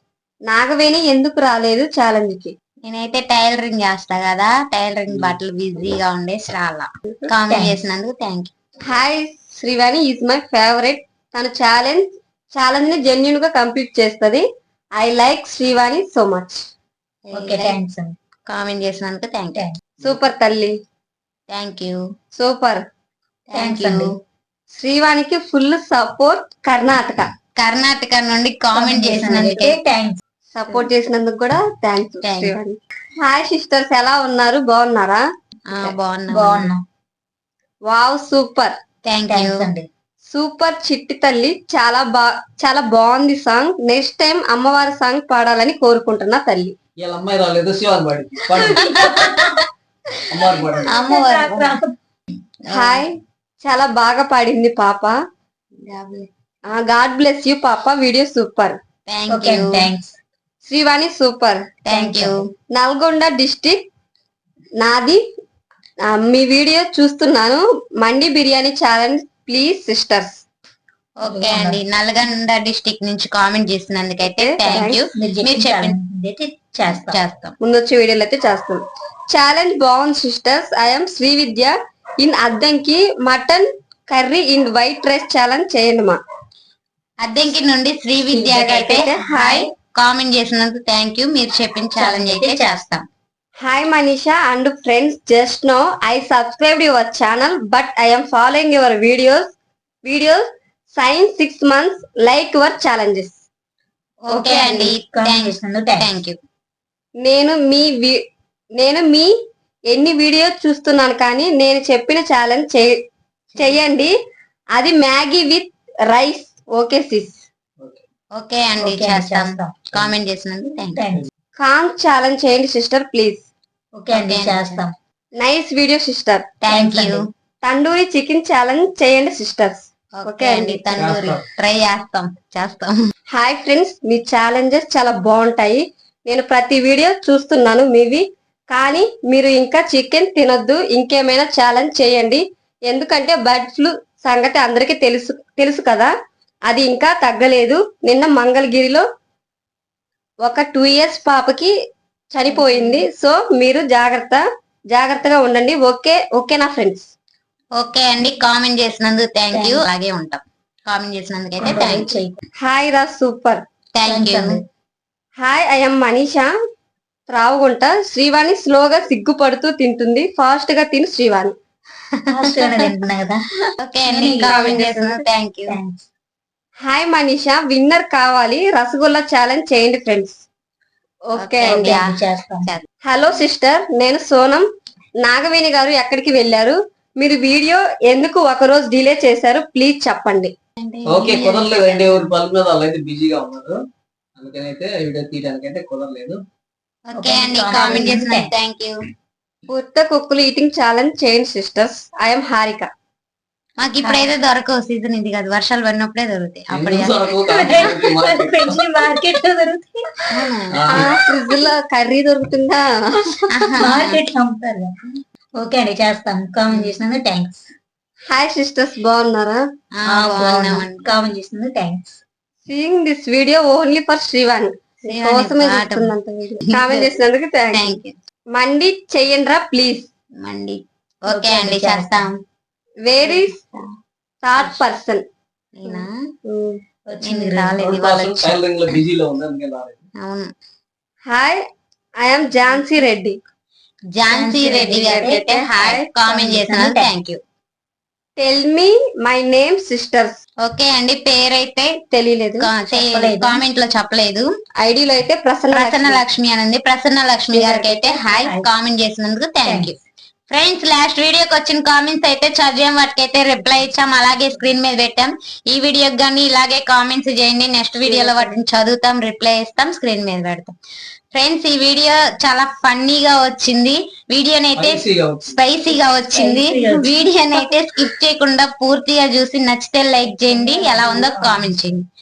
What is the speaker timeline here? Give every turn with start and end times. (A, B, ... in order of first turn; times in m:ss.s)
0:00.5-0:02.5 A
0:02.8-0:08.5 B
0:05.1-0:05.4 C
0:07.5-0:07.8 D
0:08.9-0:14.4 A
0:15.0-0:16.6 A
0:17.3-0:17.8 B
0:17.3-0:18.2 D
0:18.5-0:19.6 B
0:19.5-0:19.8 D
0:20.0-0:20.8 A
0:21.5-0:22.0 B
0:22.3-0:22.8 A
0:23.5-0:24.1 B
0:23.5-0:24.1 D
0:24.7-0:27.3 A
0:27.6-0:29.8 B
0:28.7-0:30.2 D
0:30.5-0:35.2 A
0:32.2-0:32.6 B
0:35.7-0:36.7 B
0:36.3-0:36.8 D
0:37.9-0:38.8 A
0:39.0-0:39.6 B
0:39.3-0:39.9 D
0:40.3-0:46.7 A
0:47.0-0:49.0 C
0:48.8-0:49.4 B
0:49.0-0:49.5 D
0:50.3-0:50.9 C
0:50.9-0:51.7 B
0:50.9-0:52.0 D
0:52.7-0:53.0 B
0:52.7-0:55.2 A
0:55.8-0:56.3 B
0:56.7-0:58.8 A
0:59.0-0:59.9 B
0:59.3-1:00.1 D
1:00.6-1:01.7 A
1:01.8-1:02.4 B
1:01.9-1:02.4 D
1:02.7-1:03.8 A
1:04.8-1:05.2 A
1:06.0-1:10.4 A
1:11.2-1:16.0 B
1:11.2-1:11.8 D
1:14.2-1:15.0 A
1:15.1-1:17.2 D
1:16.9-1:17.5 B
1:17.6-1:26.2 A
1:27.2-1:33.0 B
1:28.3-1:29.0 D
1:28.7-1:29.7 A
1:32.0-1:32.8 D
1:33.6-1:39.5 A
1:40.0-1:43.4 A
1:44.2-1:46.4 B
1:44.3-1:46.1 D
1:47.2-1:48.2 A
1:48.8-1:49.3 A
1:49.9-1:53.0 A
1:53.6-1:54.1 A
1:54.8-1:57.4 A
1:58.4-2:01.0 B
1:58.8-1:59.8 D
2:01.0-2:01.3 D
2:01.6-2:03.5 A
2:04.0-2:04.9 D
2:04.1-2:04.8 B
2:05.4-2:06.5 A
2:06.6-2:07.3 B
2:06.7-2:07.2 D
2:07.6-2:10.9 A
2:10.2-2:12.9 B
2:11.0-2:11.4 C
2:13.3-2:26.1 A
2:26.7-2:29.0 A
2:30.4-2:31.7 A
2:32.3-2:37.1 A
2:32.5-2:33.0 D
2:37.8-2:42.1 B
2:39.5-2:39.8 D
2:41.6-2:42.4 D
2:42.6-2:43.6 A
2:43.9-2:44.6 B
2:44.0-2:44.6 D
2:45.4-2:46.5 A
2:47.3-2:51.5 A
2:52.3-2:53.4 D
2:52.6-2:52.9 B
2:53.8-2:55.8 B
2:54.0-2:56.1 D
2:54.5-2:54.8 A
2:56.8-3:00.4 A
3:01.3-3:02.0 A
3:01.4-3:02.9 B
3:01.6-3:02.7 D
3:03.0-3:04.6 A
3:05.2-3:10.5 A
3:10.8-3:12.3 B
3:11.1-3:13.8 C
3:14.4-3:16.4 C
3:17.1-3:19.0 B
3:17.1-3:18.5 D
3:19.7-3:22.9 A
3:23.8-3:27.2 B
3:24.0-3:24.3 D
3:26.7-3:29.0 C
3:27.4-3:30.5 D
3:30.3-3:31.0 B
3:30.7-3:31.1 C
3:30.9-3:33.4 A
3:33.5-3:34.2 B
3:33.8-3:35.0 D
3:35.6-3:37.6 D
3:36.7-3:37.0 B
3:38.3-3:39.6 A
3:40.0-3:41.0 B
3:40.1-3:42.2 D
3:42.7-3:48.0 A
3:45.1-3:46.1 B
3:46.7-3:47.1 B
3:47.7-3:48.2 B
3:48.5-3:50.1 A
3:50.4-3:52.3 B
3:51.3-3:52.3 D
3:53.0-3:53.6 A
3:53.3-3:53.8 B
3:54.4-3:55.2 A
3:55.8-3:56.1 B
3:55.8-3:56.8 A
3:57.1-3:57.8 D
3:57.2-3:58.6 B
3:57.8-4:00.0 C
4:00.2-4:00.5 B
4:01.2-4:01.6 A
4:02.2-4:03.4 A
4:04.2-4:07.4 B
4:04.3-4:04.8 D
4:04.4-4:06.0 A
4:06.2-4:07.1 D
4:08.4-4:10.4 A
4:10.6-4:12.0 B
4:12.1-4:12.7 A
4:12.6-4:14.5 B
4:12.9-4:13.6 D
4:14.8-4:16.2 A
4:15.7-4:20.0 B
4:17.5-4:18.7 D
4:19.6-4:19.9 D
4:20.5-4:30.7 B
4:28.0-4:28.5 D
4:31.3-4:42.0 B
4:34.8-4:35.6 C
4:35.9-4:37.8 D
4:40.3-4:41.8 D